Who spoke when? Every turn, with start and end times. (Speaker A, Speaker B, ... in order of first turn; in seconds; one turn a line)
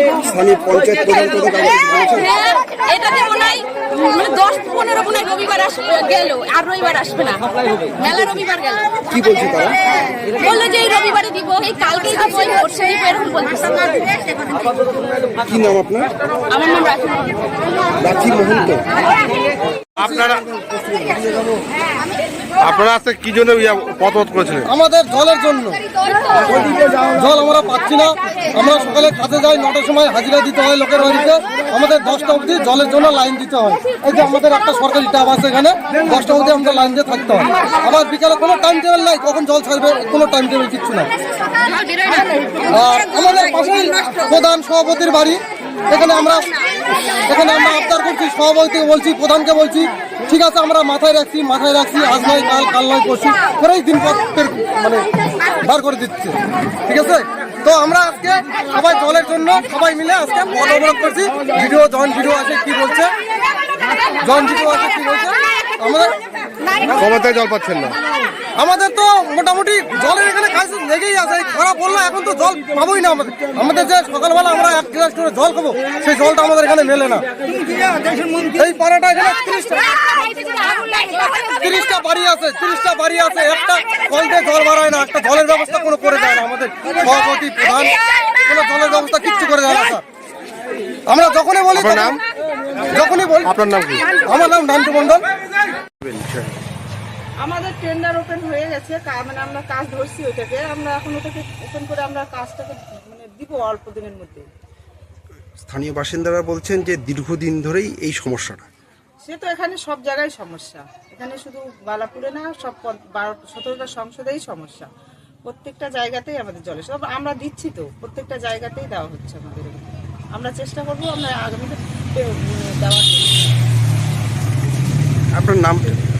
Speaker A: 0.2-2.3
Speaker B: 2.3-8.9
Speaker A: 9.1-9.9
Speaker B: 10.4-14.1
Speaker A: 15.3-16.1
Speaker B: 16.5-17.5
Speaker A: 17.9-18.9
Speaker C: 20.0-20.4
Speaker C: 22.6-24.7
Speaker D: 24.7-25.9
Speaker B: 26.1-27.0
Speaker D: 26.4-41.1
Speaker B: 41.7-42.7
Speaker D: 42.7-46.5
Speaker D: 47.3-63.1
Speaker D: 64.2-66.2
Speaker C: 67.0-68.0
Speaker D: 68.5-77.2
Speaker D: 78.3-80.0
Speaker B: 80.3-81.5
Speaker D: 81.1-90.0
Speaker D: 91.1-92.2
Speaker C: 91.8-92.2
Speaker D: 92.8-95.2
Speaker C: 93.5-94.0
Speaker A: 95.8-96.6
Speaker E: 97.4-104.5
Speaker A: 105.6-108.7
Speaker E: 109.2-114.9
Speaker E: 115.5-123.5
Speaker A: 125.3-126.0